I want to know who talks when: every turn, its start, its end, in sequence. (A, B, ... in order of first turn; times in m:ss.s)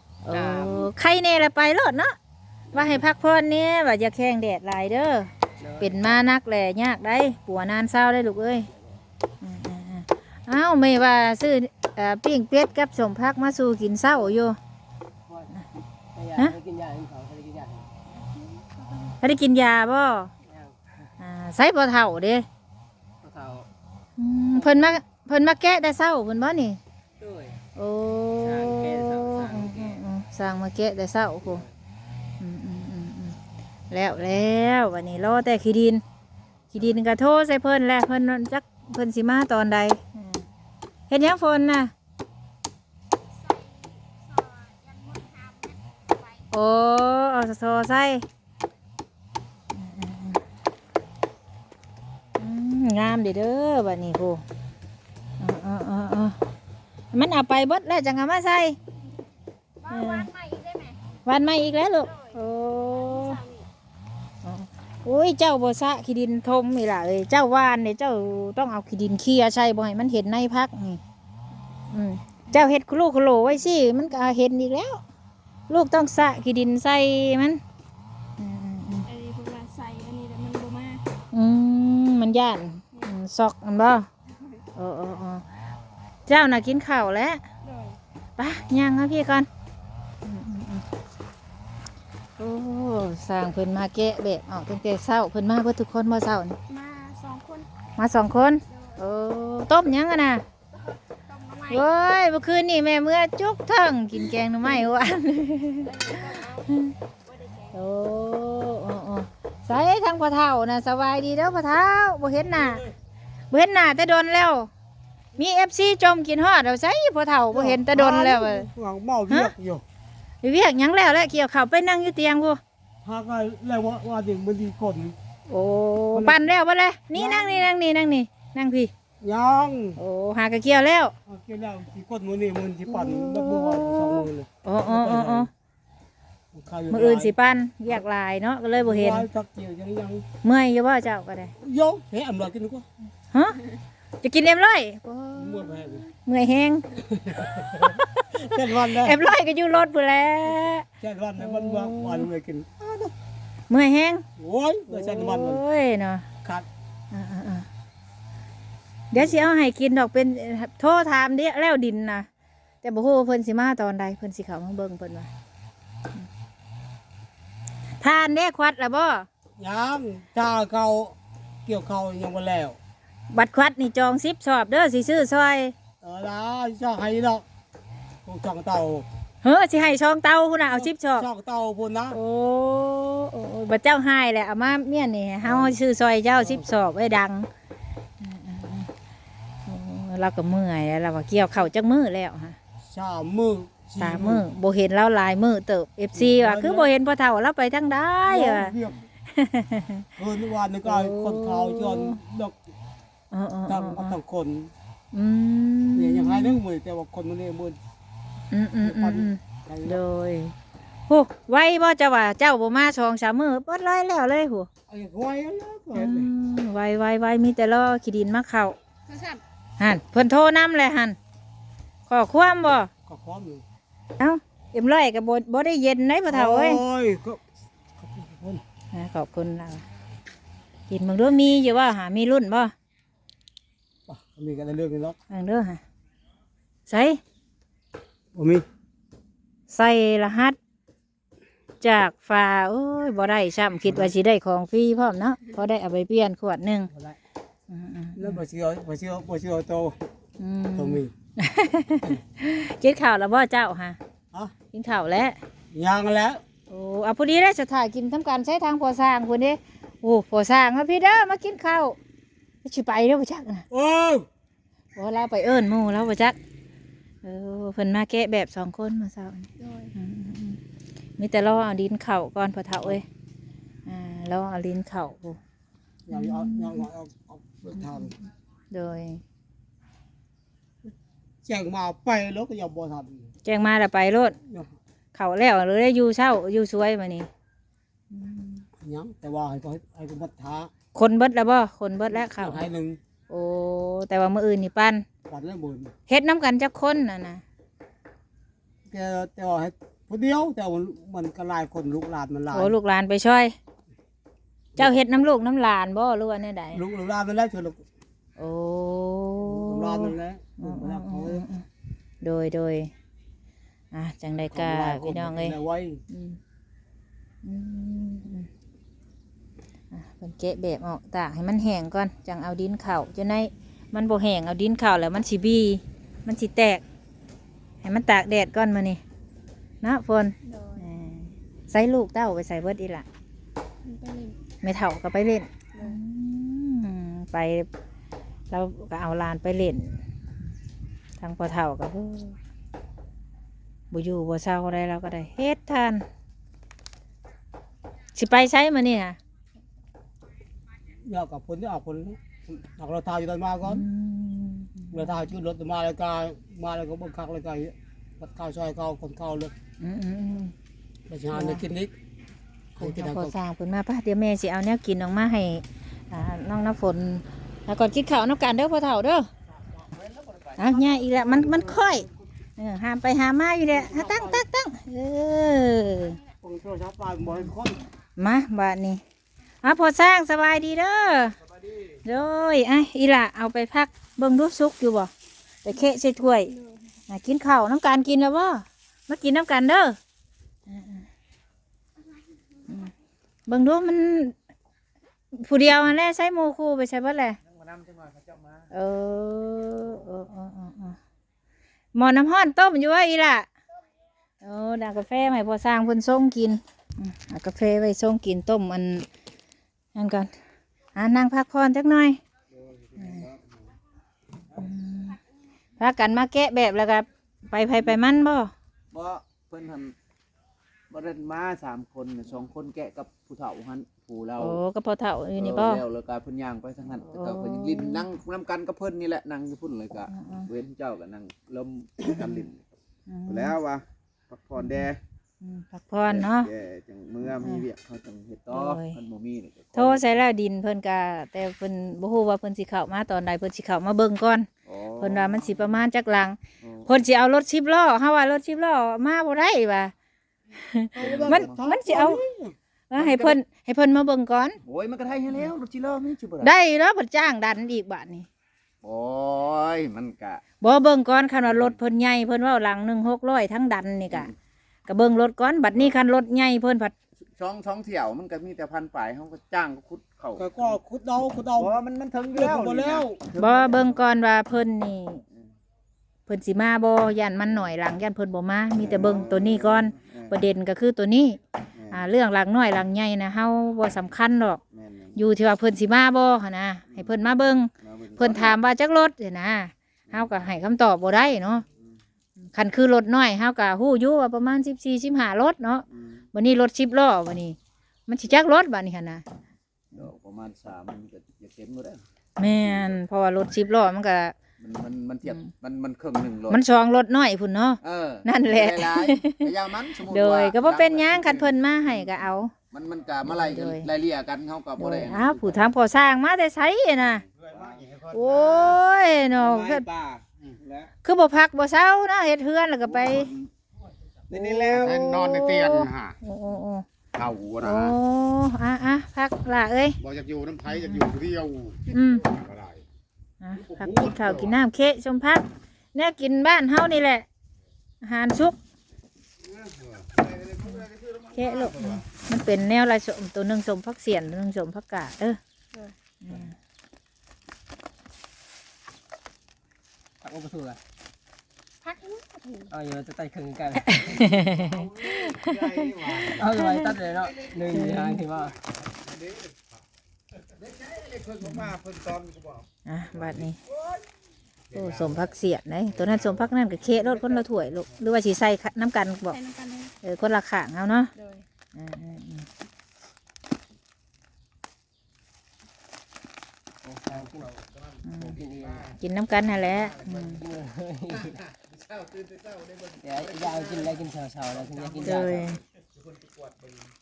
0:00.2-0:02.2 A
0:00.3-0:00.9 B
0:02.7-0:03.0 B
0:02.7-0:08.7 A
0:05.6-0:06.2 B
0:09.4-0:14.6 A
0:15.3-0:15.5 B
0:16.1-0:18.0 B
0:18.2-0:19.2 C
0:19.2-0:20.3 A
0:20.4-0:20.8 B
0:21.2-0:22.5 A
0:23.2-0:23.7 B
0:24.2-0:26.8 A
0:24.5-0:25.0 B
0:27.2-0:27.6 B
0:27.8-0:31.6 A
0:28.4-0:30.0 B
0:31.4-0:31.7 B
0:32.4-0:33.4 A
0:33.9-0:36.0 A
0:36.7-0:40.4 A
0:41.1-0:41.9 A
0:43.4-0:46.4 C
0:46.5-0:48.2 A
0:49.7-0:50.4 A
0:52.4-0:54.4 A
0:55.4-0:56.4 A
0:57.1-0:58.8 A
0:59.9-1:01.0 C
0:59.9-1:00.3 A
1:01.3-1:03.4 A
1:02.0-1:02.4 C
1:02.9-1:03.7 C
1:04.4-1:11.0 A
1:11.9-1:15.0 A
1:15.7-1:17.6 A
1:18.4-1:19.1 A
1:19.0-1:21.0 C
1:21.3-1:24.1 A
1:22.9-1:23.2 C
1:24.8-1:25.4 A
1:26.3-1:27.4 A
1:27.6-1:28.0 C
1:28.4-1:29.5 A
1:30.2-1:30.8 A
1:32.4-1:36.6 A
1:36.7-1:37.7 C
1:38.0-1:40.4 A
1:38.7-1:39.2 C
1:41.3-1:41.9 C
1:41.7-1:46.9 A
1:45.8-1:46.7 C
1:47.3-1:47.8 C
1:47.7-1:52.9 A
1:53.5-1:54.7 A
1:55.4-1:58.7 A
1:57.5-1:59.8 D
2:00.4-2:02.6 A
2:03.0-2:05.2 D
2:05.5-2:08.9 A
2:06.1-2:06.5 D
2:07.1-2:07.7 D
2:09.2-2:10.0 D
2:10.0-2:11.1 A
2:11.3-2:15.5 D
2:12.9-2:15.5 A
2:16.5-2:17.4 D
2:16.9-2:19.3 A
2:18.8-2:20.2 D
2:20.4-2:21.5 A
2:21.6-2:22.9 D
2:23.3-2:23.6 A
2:24.2-2:30.9 A
2:25.4-2:26.0 D
2:27.0-2:29.3 D
2:31.0-2:33.1 D
2:31.4-2:32.3 A
2:33.7-2:34.2 A
2:34.4-2:35.6 D
2:34.9-2:36.3 A
2:37.1-2:37.7 A
2:39.1-2:42.3 A
2:42.8-2:45.3 A
2:48.0-2:49.3 A
2:49.6-2:52.8 D
2:53.3-2:55.8 A
2:56.0-2:57.4 D
2:58.2-2:59.1 D
2:59.4-3:01.3 A
3:00.8-3:02.2 D
3:02.1-3:07.5 A
3:05.4-3:05.8 D
3:06.4-3:06.6 D
3:08.2-3:08.9 A
3:09.7-3:12.6 A
3:12.9-3:14.5 D
3:14.0-3:18.8 A
3:16.1-3:16.9 D
3:18.3-3:19.0 D
3:19.3-3:20.1 A
3:20.2-3:22.6 D
3:20.8-3:22.2 A
3:23.3-3:24.2 A
3:23.7-3:24.7 D
3:25.1-3:26.6 A
3:26.0-3:27.8 D
3:28.5-3:30.6 A
3:28.8-3:30.0 D
3:31.1-3:34.7 A
3:34.9-3:36.3 D
3:35.9-3:38.8 A
3:39.1-3:39.4 C
3:39.8-3:41.2 A
3:42.1-3:42.9 A
3:43.1-3:43.6 D
3:44.2-3:46.8 A
3:46.3-3:47.4 D
3:48.0-3:48.6 D
3:48.9-3:49.9 A
3:50.9-3:52.7 A
3:54.1-3:55.2 D
3:55.3-3:55.8 A
3:56.9-3:57.2 A
3:58.3-3:58.6 D
3:59.7-4:00.6 A
4:01.8-4:06.9 A
4:06.9-4:07.2 D
4:07.7-4:08.4 A
4:08.2-4:10.0 D
4:10.4-4:14.0 A
4:10.8-4:11.1 D
4:14.7-4:15.4 A
4:15.7-4:16.4 D
4:16.7-4:22.0 A
4:22.6-4:23.7 A
4:23.7-4:24.3 D
4:25.0-4:26.4 A
4:27.2-4:30.6 A
4:29.6-4:29.9 C
4:31.2-4:33.0 A
4:33.9-4:35.4 A
4:36.1-4:38.1 D
4:36.1-4:36.9 A
4:37.8-4:38.1 A
4:38.7-4:39.2 A
4:41.4-4:43.3 D
4:43.5-4:44.4 A
4:45.2-4:47.3 A
4:48.1-4:48.7 A
4:48.8-4:50.7 D
4:51.0-4:52.6 A
4:52.2-4:53.0 D
4:53.3-4:55.0 A
4:55.3-4:55.9 D
4:56.1-4:57.4 A
4:58.9-5:02.8 D
5:02.5-5:03.6 A
5:04.8-5:06.8 A
5:06.7-5:07.8 D
5:08.4-5:11.6 A
5:09.4-5:11.5 D
5:12.2-5:12.9 A
5:13.9-5:15.6 A
5:14.3-5:16.0 D
5:16.1-5:16.4 A
5:17.4-5:18.5 A
5:19.9-5:26.8 A
5:27.8-5:29.0 A
5:29.8-5:33.1 A
5:30.4-5:30.9 C
5:33.8-5:34.4 C
5:34.6-5:37.7 A
5:35.7-5:36.0 C
5:38.5-5:40.0 A
5:41.2-5:42.4 A
5:43.9-5:46.0 A
5:48.2-5:49.2 A
5:51.0-5:53.8 D
5:53.6-5:55.2 A
5:54.9-5:59.5 D
5:59.8-6:00.5 A
6:01.1-6:01.9 D
6:01.3-6:01.6 A
6:02.8-6:03.4 D
6:02.8-6:09.3 A
6:09.9-6:10.9 E
6:10.6-6:12.1 A
6:10.7-6:12.2 D
6:12.6-6:16.2 A
6:13.7-6:14.4 D
6:16.4-6:17.8 D
6:18.2-6:19.0 A
6:19.6-6:21.4 A
6:22.0-6:25.1 A
6:25.6-6:26.5 A
6:26.5-6:26.8 C
6:27.1-6:30.0 A
6:30.7-6:31.1 A
6:33.5-6:34.4 A
6:35.3-6:37.4 A
6:37.5-6:38.7 E
6:38.7-6:41.0 A
6:42.0-6:43.5 A
6:44.4-6:49.1 A
6:50.0-6:50.3 A
6:51.0-6:52.2 A
6:52.5-6:53.4 E
6:53.0-6:53.3 A
6:54.6-6:55.2 A
6:55.8-6:58.5 A
6:58.9-6:59.9 E
7:00.9-7:04.6 E
7:04.4-7:05.8 A
7:05.4-7:12.6 E
7:07.1-7:08.1 A
7:10.1-7:10.5 A
7:12.1-7:12.4 A
7:13.1-7:13.6 A
7:13.3-7:15.0 E
7:14.6-7:14.9 A
7:15.4-7:16.5 A
7:16.1-7:20.2 E
7:17.2-7:17.6 A
7:18.5-7:19.0 A
7:19.8-7:29.9 A
7:24.7-7:25.8 E
7:26.6-7:26.9 E
7:30.5-7:32.2 A
7:30.9-7:32.6 D
7:31.0-7:31.6 E
7:32.9-7:34.6 A
7:33.0-7:33.4 E
7:34.6-7:36.5 E
7:36.4-7:38.3 A
7:38.8-7:40.4 E
7:40.6-7:44.3 A
7:41.4-7:41.8 E
7:44.9-7:46.9 A
7:47.3-7:50.8 E
7:50.4-7:51.7 D
7:51.6-7:54.0 E
7:52.3-7:53.2 D
7:53.4-7:55.2 A
7:56.3-8:01.4 A
7:58.8-8:00.3 E
8:01.8-8:02.0 E
8:01.9-8:04.6 A
8:04.7-8:05.2 E
8:05.2-8:11.6 A
8:06.9-8:08.6 E
8:10.1-8:10.4 E
8:12.5-8:17.6 A
8:15.9-8:16.2 E
8:18.1-8:19.2 A
8:19.9-8:22.9 E
8:22.4-8:24.4 A
8:24.6-8:26.6 E
8:26.5-8:32.5 A
8:27.8-8:32.1 E
8:32.7-8:35.7 E
8:33.2-8:33.9 A
8:34.8-8:37.2 A
8:37.3-8:38.8 F
8:37.5-8:37.8 E
8:38.1-8:39.8 A
8:39.4-8:40.9 E
8:41.0-8:43.3 A
8:42.8-8:43.5 E
8:44.3-8:45.1 E
8:44.3-8:46.9 A
8:44.8-8:46.2 F
8:47.6-8:50.0 A
8:50.0-8:52.8 F
8:50.7-8:51.0 A
8:51.9-8:52.3 A
8:53.4-8:57.3 A
8:53.6-8:54.5 F
8:58.0-8:58.6 A
8:59.4-9:02.1 F
9:01.4-9:05.4 A
9:06.2-9:06.5 A
9:10.2-9:10.8 B
9:11.8-9:12.7 C
9:12.7-9:14.2 B
9:13.8-9:16.9 A
9:14.4-9:16.4 F
9:16.3-9:18.6 B
9:17.7-9:18.2 A
9:18.5-9:19.8 F
9:21.4-9:21.7 A
9:21.6-9:22.6 F
9:22.9-9:23.6 A
9:24.7-9:25.3 F
9:24.7-9:29.4 A
9:25.9-9:26.5 F
9:29.3-9:29.9 C
9:30.0-9:31.1 A
9:31.1-9:31.4 C
9:31.8-9:32.5 A
9:36.8-9:37.5 B
9:38.0-9:38.4 A
9:38.2-9:39.0 B
9:39.0-9:40.4 A
9:40.3-9:41.4 B
9:41.7-9:42.0 F
9:43.0-9:45.4 B
9:45.0-9:45.4 E
9:45.0-9:45.6 A
9:46.1-9:46.7 F